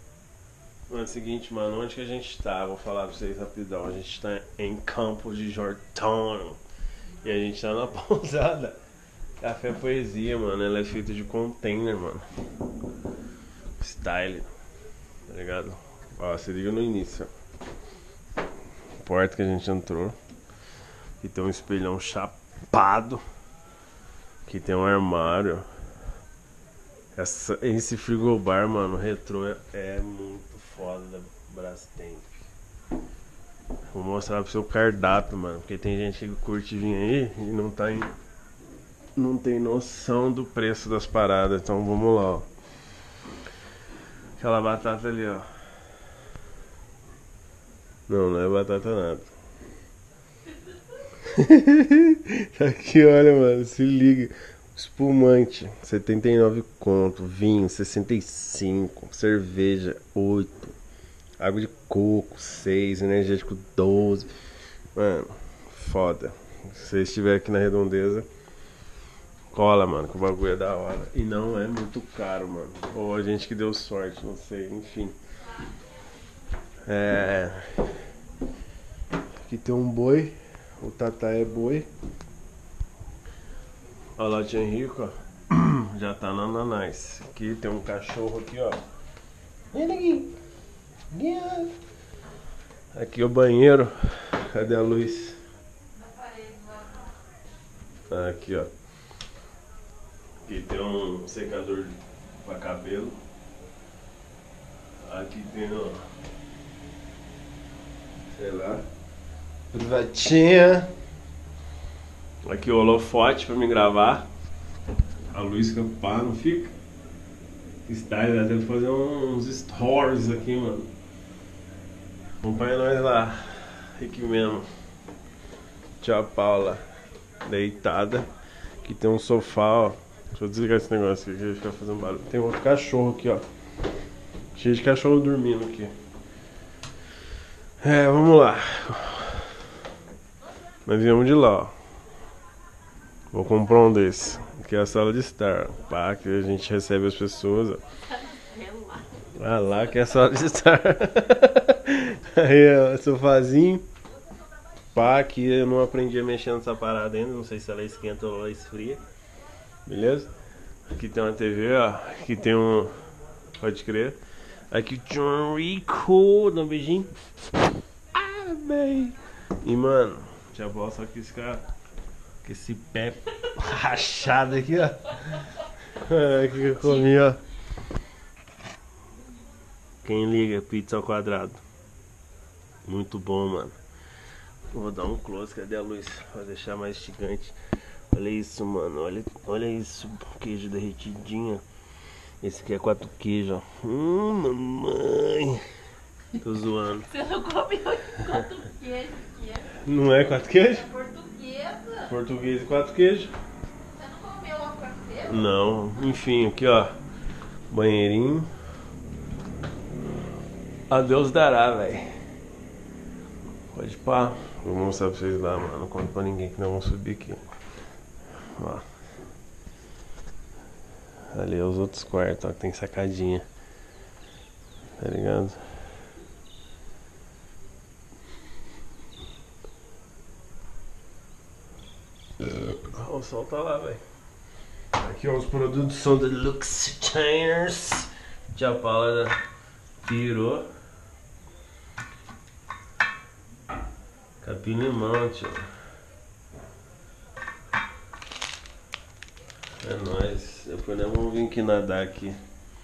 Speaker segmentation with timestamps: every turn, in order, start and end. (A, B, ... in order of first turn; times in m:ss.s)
0:00.9-0:06.6 A
0:07.2-0:08.8 A
0:09.4-0:12.2 A
0:13.8-0:14.5 A
0:15.3-0:17.3 A
0:19.0-0:20.2 A
0:21.2-0:23.2 A
0:24.5-0:25.7 A
0:27.2-0:32.5 A
0:33.9-0:38.2 A
0:39.2-0:42.5 A
0:44.4-0:45.5 A
0:48.1-0:49.3 A
0:51.2-1:00.8 A
1:01.4-1:04.3 A
1:05.0-1:08.3 A
1:09.5-1:15.2 A
1:16.9-1:17.9 A
1:19.4-1:21.9 A
1:24.2-1:28.8 A
1:29.7-1:30.3 A
1:31.1-1:31.8 A
1:32.9-1:35.4 A
1:36.1-1:36.8 B
1:38.1-1:38.7 A
1:40.4-1:43.2 A
1:45.0-1:46.0 A
1:48.3-1:48.9 A
1:49.7-1:50.9 A
1:52.4-1:54.3 A
1:55.3-1:56.7 A
1:57.9-2:00.9 A
2:02.4-2:04.7 A
2:06.0-2:06.8 A
2:07.4-2:08.3 A
2:08.8-2:13.4 A
2:14.6-2:15.9 A
2:17.8-2:19.6 A
2:20.8-2:21.7 A
2:23.3-2:27.8 A
2:28.3-2:29.2 B
2:29.3-2:33.9 A
2:35.0-2:39.0 A
2:39.9-2:40.3 A
2:40.9-2:42.9 A
2:43.6-2:44.2 A
2:44.7-2:47.1 A
2:48.1-2:51.7 A
2:52.4-2:57.4 A
3:00.0-3:01.6 A
3:02.8-3:03.8 A
3:04.7-3:07.6 A
3:08.1-3:11.6 A
3:12.4-3:15.7 A
3:16.3-3:17.2 A
3:17.1-3:19.8 B
3:19.7-3:20.9 A
3:20.8-3:22.1 B
3:22.0-3:23.3 A
3:23.9-3:25.3 B
3:25.3-3:27.0 A
3:27.7-3:28.5 A
3:30.9-3:32.1 A
3:33.7-3:37.4 A
3:38.5-3:38.9 A
3:41.3-3:43.4 A
3:45.0-3:45.6 A
3:52.4-3:54.0 A
3:55.0-3:59.4 A
4:00.0-4:00.7 A
4:04.4-4:05.7 A
4:09.8-4:12.4 A